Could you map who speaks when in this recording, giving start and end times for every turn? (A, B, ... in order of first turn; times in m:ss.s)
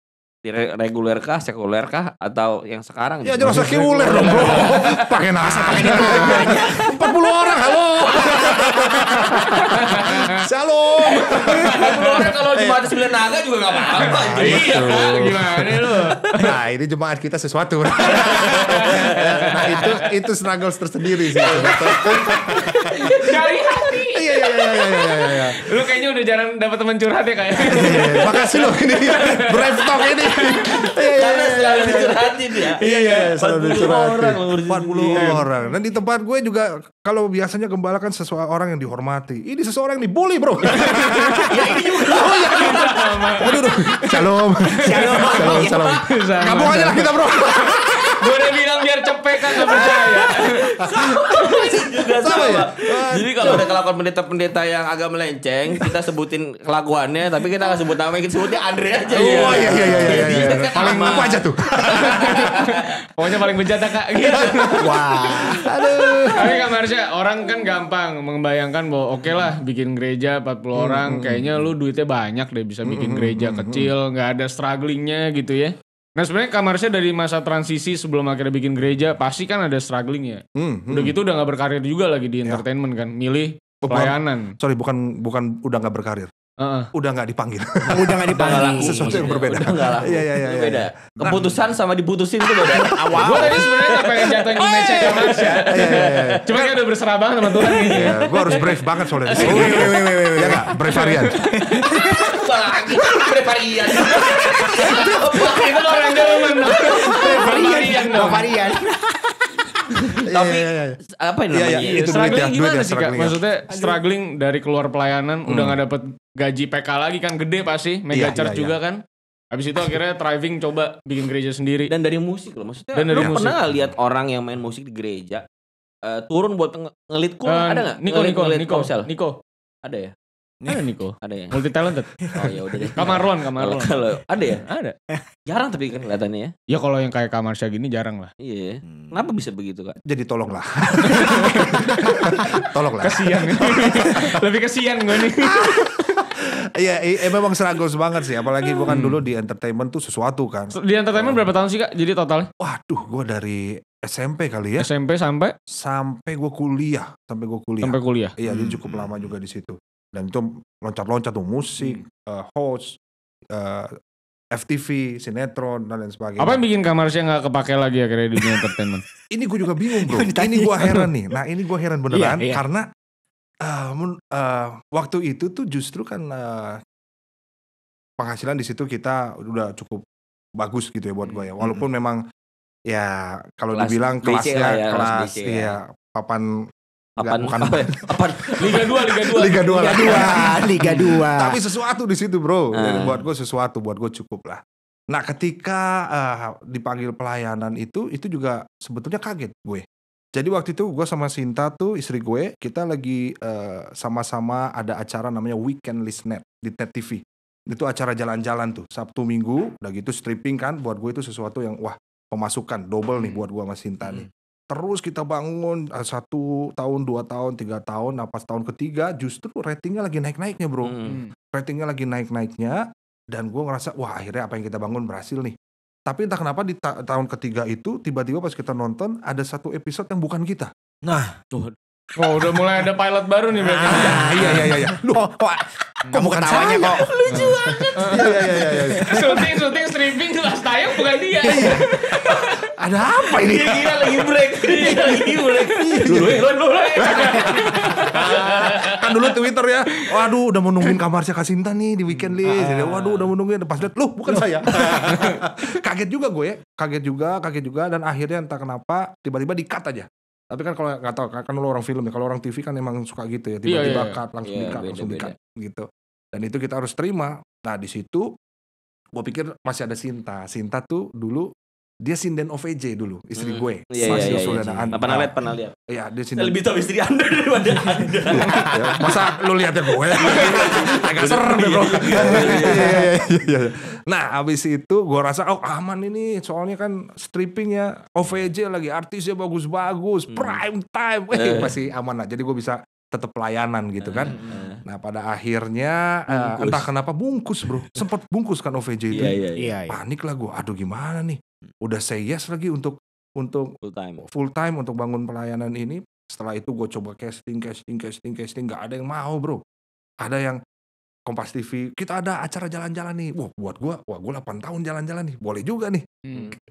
0:00.4-0:04.7 A
0:03.2-0:12.9 B
0:03.5-0:04.7 C
0:03.5-0:05.1 D
0:05.4-0:07.1 C
0:05.8-0:09.8 A
0:08.1-0:08.7 C
0:09.7-0:10.2 D
0:11.1-0:16.4 A
0:14.0-0:15.9 B
0:14.0-0:16.5 D
0:16.4-0:22.9 B
0:18.0-0:20.0 A
0:18.6-0:19.9 D
0:21.4-0:23.9 A
0:22.1-0:22.6 D
0:23.1-0:24.2 D
0:24.1-0:25.6 B
0:25.0-0:30.9 D
0:27.6-0:48.4 B
0:27.9-0:28.6 A
0:31.0-0:35.3 A
0:35.2-0:35.4 D
0:40.6-0:43.4 A
0:40.8-0:41.4 D
0:41.3-0:42.6 C
0:42.6-0:50.7 D
0:44.7-0:46.0 C
0:45.1-0:45.8 A
0:49.4-1:02.9 A
0:51.1-0:53.6 B
0:59.1-1:02.4 B
0:59.2-1:00.3 C
1:00.2-1:01.2 D
1:01.9-1:05.4 D
1:04.1-1:05.4 A
1:04.8-1:05.6 C
1:04.8-1:06.6 B
1:06.4-1:24.5 D
1:10.8-1:11.7 B
1:12.8-1:13.9 B
1:20.6-1:21.2 B
1:23.8-1:26.3 B
1:26.6-1:26.9 D
1:26.9-1:31.5 B
1:27.9-1:29.6 C
1:28.4-1:36.4 A
1:32.6-1:33.7 C
1:33.2-1:40.0 D
1:35.1-1:35.6 C
1:35.7-1:36.8 B
1:37.6-1:38.1 A
1:37.9-1:41.7 B
1:39.3-1:42.4 C
1:40.8-1:41.4 D
1:41.8-1:47.2 A
1:42.9-1:43.3 C
1:43.9-1:45.5 C
1:44.8-1:48.5 D
1:46.4-1:50.2 C
1:50.2-1:51.0 B
1:50.3-1:52.4 A
1:51.5-1:53.4 B
1:51.8-1:59.0 D
1:53.7-1:54.0 C
1:55.5-1:55.8 B
1:58.1-1:58.8 B
1:59.5-2:01.9 D
2:01.9-2:05.4 A
2:02.9-2:03.6 D
2:03.1-2:03.4 B
2:06.0-2:09.1 A
2:07.4-2:09.4 D
2:09.8-2:10.1 A
2:10.6-2:10.9 C
2:10.7-2:12.3 D
2:11.2-2:11.6 A
2:12.2-2:13.1 C
2:12.3-2:14.6 A
2:13.0-2:14.0 D
2:14.6-2:15.0 D
2:15.4-2:16.5 A
2:16.7-2:18.3 D
2:18.4-2:20.0 A
2:18.9-2:19.1 C
2:20.0-2:24.4 B
2:21.0-2:22.5 C
2:21.0-2:21.6 D
2:23.0-2:26.1 D
2:25.1-2:31.5 B
2:28.9-2:29.2 D
2:30.7-2:32.5 D
2:32.6-2:34.9 B
2:34.8-2:35.5 D
2:35.7-2:43.0 B
2:37.8-2:38.3 D
2:38.5-2:39.2 C
2:43.5-2:43.9 B
2:44.5-2:46.6 B
2:46.4-2:49.0 D
2:49.3-2:52.9 B
2:49.9-2:51.1 C
2:52.1-2:52.6 C
2:53.6-2:56.8 B
2:58.2-3:00.0 B
3:00.6-3:02.2 B
3:02.9-3:06.5 B
3:03.7-3:05.7 A
3:07.2-3:08.9 A
3:07.2-3:08.2 B
3:08.6-3:10.9 D
3:08.7-3:41.0 B
3:09.7-3:11.6 C
3:12.7-3:13.2 A
3:40.8-3:41.2 A
3:41.1-3:41.3 D
3:41.5-3:50.7 B
3:51.0-3:51.4 C
3:51.5-3:54.6 D
3:53.6-3:59.4 C
3:53.8-3:55.4 B
3:56.1-3:56.6 D
3:56.2-3:57.1 B
3:56.6-3:57.9 A
3:57.3-4:02.5 D
3:57.6-3:59.5 B
4:01.4-4:04.2 B
4:03.3-4:08.7 A
4:04.7-4:09.2 D
4:05.7-4:06.4 B
4:07.0-4:28.3 B
4:12.5-4:13.3 A
4:12.6-4:12.9 C
4:14.8-4:15.4 D
4:23.6-4:24.2 D
4:24.4-4:25.3 A
4:29.1-4:31.5 B
4:32.0-4:35.3 B
4:33.4-4:35.8 A
4:35.9-4:36.6 B
4:36.4-4:39.1 A
4:38.3-4:59.4 B
4:40.1-4:43.0 A
4:42.6-4:43.2 C
4:50.3-4:50.6 A
4:51.3-4:51.8 A
4:54.0-4:54.8 A
4:54.2-4:54.6 C
4:56.3-4:56.9 A
4:59.1-4:59.7 A
4:59.6-5:00.0 C
4:59.9-5:03.7 B
5:03.8-5:04.2 A
5:04.2-5:09.6 B
5:10.2-5:10.6 B
5:11.3-5:16.3 B
5:16.2-5:16.5 D